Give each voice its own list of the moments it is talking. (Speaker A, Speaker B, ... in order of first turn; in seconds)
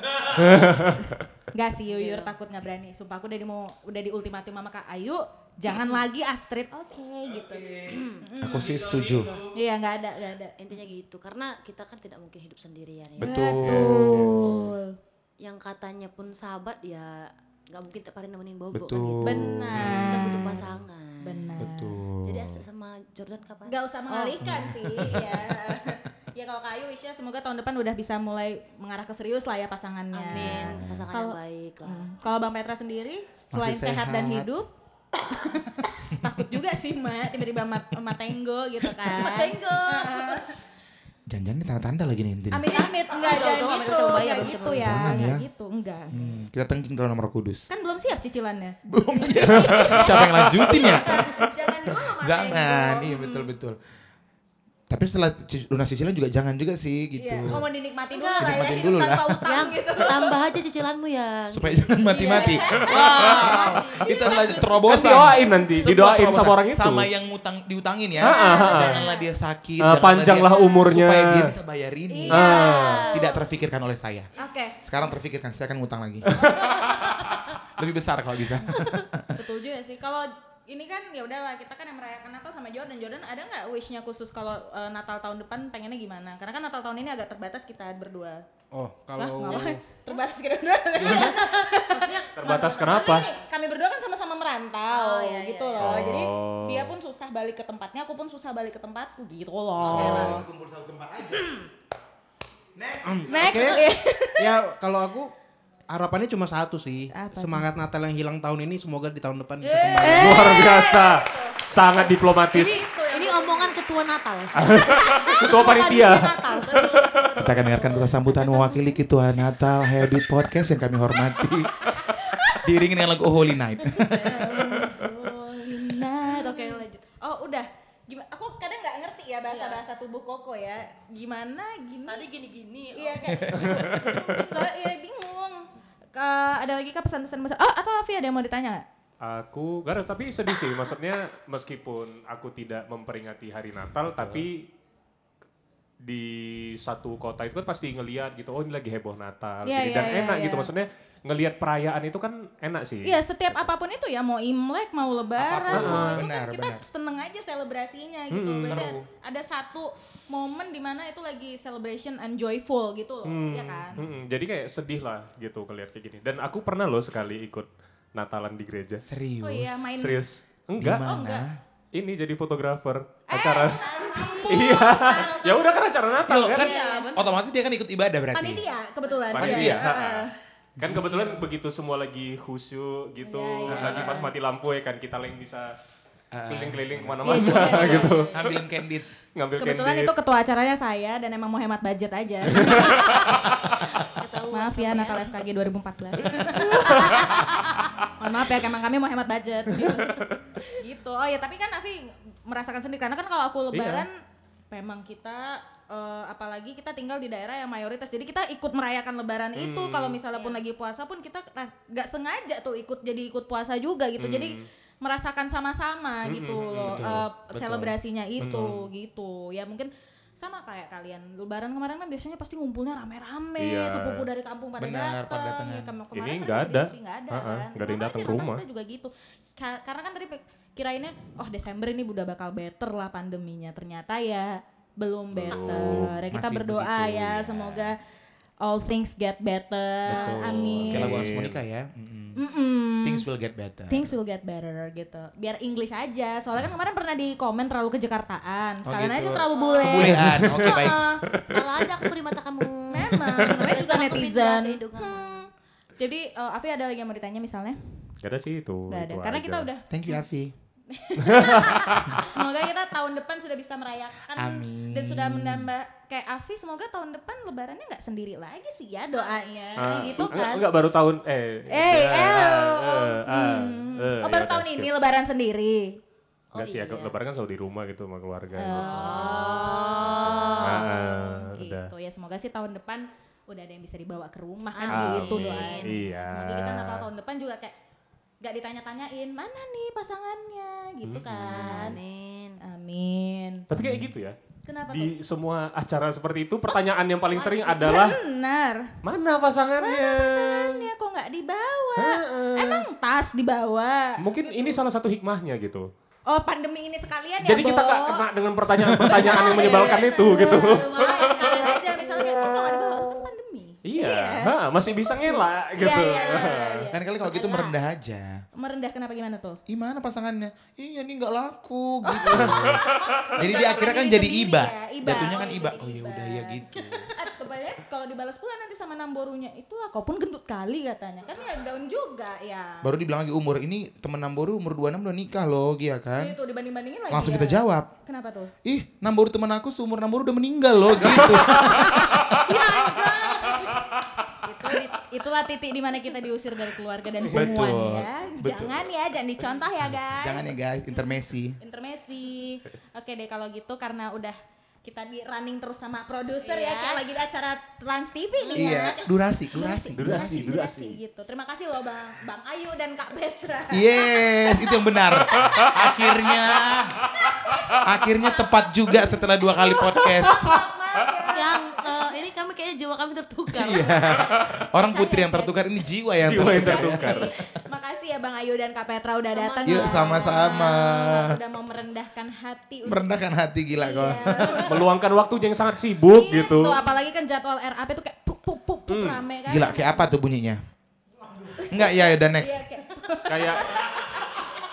Speaker A: 0.3-1.2, 49.5-50.7, 64.9-67.1, 68.2-69.0, 69.8-71.5, 72.3-73.1, 76.3-76.9, 92.4-93.3, 95.8-97.0, 99.8-100.4, 110.2-112.9, 114.6-117.4, 133.6-134.2, 139.2-144.7, 146.0-153.2, 155.7-156.2, 158.3-158.9, 163.2-169.0, 170.0-171.0, 171.9-173.9, 174.4-176.7, 179.3-180.3, 180.8-185.8, 186.5-188.6, 189.3-190.2, 192.5-193.2, 196.6-197.3, 203.7-204.1, 209.6-210.2, 214.2-214.7, 216.2-217.2, 218.4-218.8, 223.6-224.2, 226.1-228.6, 235.3-236.2, 240.4-241.6, 250.0-252.1, 258.2-259.7, 261.2-262.2, 269.8-274.9, 276.6-281.9, 284.9-287.1, 291.1-291.9, 293.7-294.4, 294.9-298.2, 299.0-300.9, 302.0-302.9, 304.2-305.9, 307.4-311.7, 313.9-316.8, 322.3-323.3, 341.3-342.4, 360.0-361.0, 365.4-365.6, 376.2-377.3, 384.5-386.9, 388.9-389.2, 393.3-394.3
Speaker B: 1.5-8.9, 9.4-10.6, 13.2-15.0, 19.2-20.6, 21.2-22.0, 23.7-34.7, 35.2-40.5, 42.5-46.4, 47.7-53.5, 57.2-60.4, 62.0-65.7, 68.2-69.2, 72.1-73.1, 74.4-74.8, 79.3-88.5, 89.2-100.5, 103.3-104.6, 107.1-107.7, 110.0-113.8, 115.2-115.8, 116.6-118.8, 121.9-122.7, 123.8-132.3, 132.9-138.8, 149.7-150.7, 153.0-164.0, 169.4-170.2, 171.0-171.4, 173.3-175.8, 176.5-177.2, 178.3-180.3, 183.2-184.3, 187.2-188.3, 189.6-193.5, 194.5-204.2, 204.7-238.0, 238.6-241.3, 242.4-243.3, 243.9-251.2, 252.9-258.1, 258.9-260.2, 260.9-270.6, 271.7-276.0, 278.6-287.7, 288.4-292.0, 292.6-293.7, 294.6-295.1, 297.3-299.0, 299.8-304.8, 306.3-308.3, 309.0-317.8, 318.6-319.6, 322.0-332.9, 336.1-338.5, 341.0-343.5, 344.4-350.5, 351.6-364.9, 367.0-368.1, 368.9-369.2, 369.9-372.0, 374.8-375.6, 376.3-383.1, 383.8-384.9, 386.1-390.1, 391.5-394.4
Speaker C: 1.9-2.3, 7.9-8.2, 10.6-14.6, 15.4-21.6, 22.2-24.5, 30.1-32.1, 39.0-40.5, 42.7-45.2, 58.1-58.9, 59.4-64.6, 70.5-70.9, 72.3-73.4, 76.5-77.5, 78.7-79.0, 89.4-90.2, 91.0-93.4, 94.9-96.2, 100.0-100.4, 109.6-111.4, 111.9-118.9, 124.1-124.5, 126.2-126.8, 129.5-129.8, 132.1-134.7, 173.7-175.9, 176.5-177.3, 179.0-179.4, 187.6-188.5, 192.9-195.3, 196.8-197.9, 210.3-210.6, 249.6-250.0, 251.5-255.3, 269.2-270.3, 276.5-277.2, 278.7-280.9, 284.7-286.0, 291.5-292.6, 309.1-312.3, 315.9-316.9, 341.1-343.9, 356.4-357.3, 358.4-358.9, 370.1-370.4, 371.3-374.4, 379.3-380.6
Speaker D: 8.4-9.4, 13.2-14.7, 18.7-20.5, 21.6-22.6, 24.4-25.4, 30.3-31.1, 33.5-34.5, 41.3-42.8, 44.7-45.5, 46.1-47.7, 48.9-53.8, 54.9-57.6, 58.4-59.4, 61.5-79.4, 99.8-101.6, 102.8-103.9, 117.4-124.7, 133.3-134.2, 144.1-144.5, 155.4-156.8, 158.6-159.1, 169.0-170.0, 170.8-171.6, 176.2-178.7, 179.4-179.9, 180.8-181.4, 183.7-184.2, 186.3-189.1, 216.8-217.9, 224.8-225.9, 235.3-237.9, 240.1-242.4, 243.0-244.1, 248.8-251.1, 259.9-260.5, 264.3-265.7, 293.7-294.1, 316.9-318.4, 319.7-327.1, 332.8-336.4, 337.1-337.9, 338.6-342.3, 347.3-348.9, 350.2-351.6, 358.6-360.5, 363.7-367.1, 367.8-370.5, 373.5-377.4, 379.6-381.4, 382.8-384.6, 389.5-390.6, 391.6-392.6
Speaker E: 88.7-89.8, 91.0-91.3, 103.2-105.3, 105.9-110.4